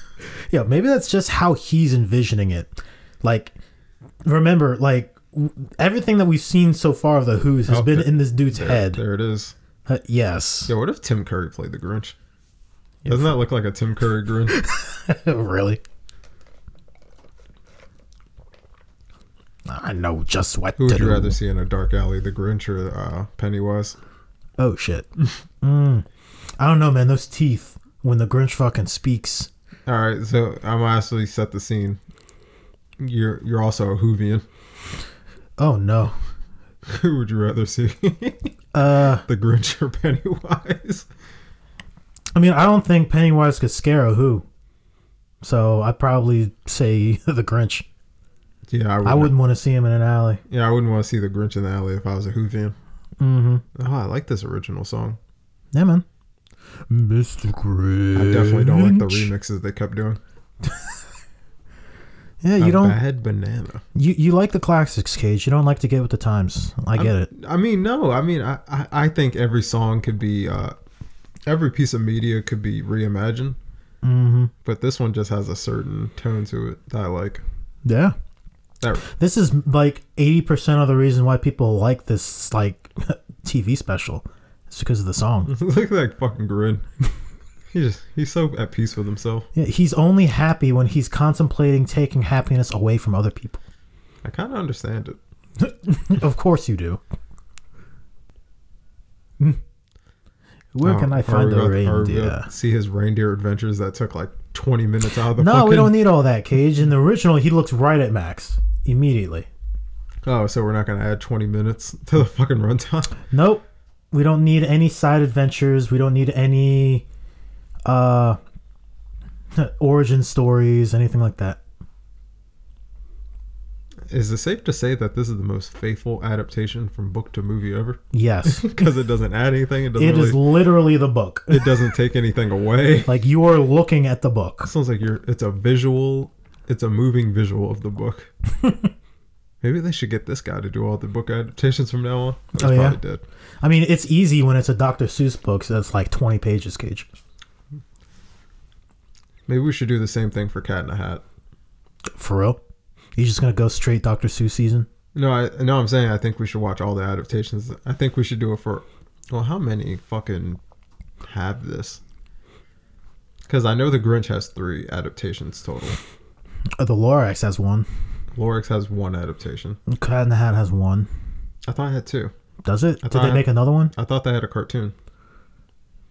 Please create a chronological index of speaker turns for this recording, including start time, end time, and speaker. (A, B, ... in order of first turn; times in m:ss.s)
0:00.5-0:03.5 A
0:04.2-0:09.0 A
0:07.7-0:09.6 B
0:09.9-0:10.7 A
0:10.7-0:12.2 B
0:13.0-0:13.3 A
0:13.1-0:14.5 B
0:14.5-0:15.8 A
0:19.7-0:21.4 A
0:20.8-0:24.0 B
0:24.6-0:25.1 A
0:25.6-0:26.1 A
0:26.6-0:29.5 A
0:29.9-0:32.0 B
0:33.0-0:34.4 B
0:35.6-0:36.2 A
0:36.9-0:38.5 B
0:38.7-0:39.2 A
0:39.2-0:41.1 B
0:42.4-0:44.4 A
0:45.4-0:47.9 A
0:48.7-0:49.4 B
0:49.0-0:50.4 A
0:50.5-0:52.8 B
0:53.2-0:53.6 A
0:53.8-0:55.2 B
0:55.7-0:56.0 A
0:56.9-0:59.3 A
0:58.2-1:00.2 B
1:02.4-1:03.0 A
1:02.6-1:03.8 B
1:04.0-1:07.3 A
1:07.0-1:10.8 B
1:11.5-1:13.6 B
1:14.0-1:14.5 A
1:14.6-1:17.4 B
1:17.8-1:18.2 A
1:18.8-1:19.0 B
1:19.0-1:25.5 A
1:25.5-1:26.8 B
1:27.7-1:29.5 B
1:29.6-1:33.6 A
1:34.2-1:35.2 B
1:35.6-1:37.0 A
1:40.8-1:42.5 A
1:40.8-1:46.0 B
1:45.4-1:49.5 A
1:50.2-1:53.2 B
1:53.3-1:57.1 A
1:57.9-1:58.4 A
1:59.6-2:01.6 A
2:04.1-2:10.4 B
2:08.1-2:08.8 A
2:10.0-2:11.7 A
2:11.5-2:13.1 B
2:13.1-2:14.7 A
2:14.6-2:18.3 B
2:18.6-2:18.9 A
2:19.6-2:23.2 B
2:22.6-2:23.0 A
2:23.6-2:27.1 A
2:29.5-2:31.2 B
2:32.2-2:32.6 A
2:33.2-2:34.9 A
2:35.2-2:40.6 B
2:41.2-2:42.0 B
2:43.5-2:46.0 B
2:46.8-2:47.9 A
2:48.3-2:49.8 B
2:49.9-2:51.1 A
2:51.6-2:52.3 B
2:52.6-2:53.9 A
2:53.0-2:55.0 B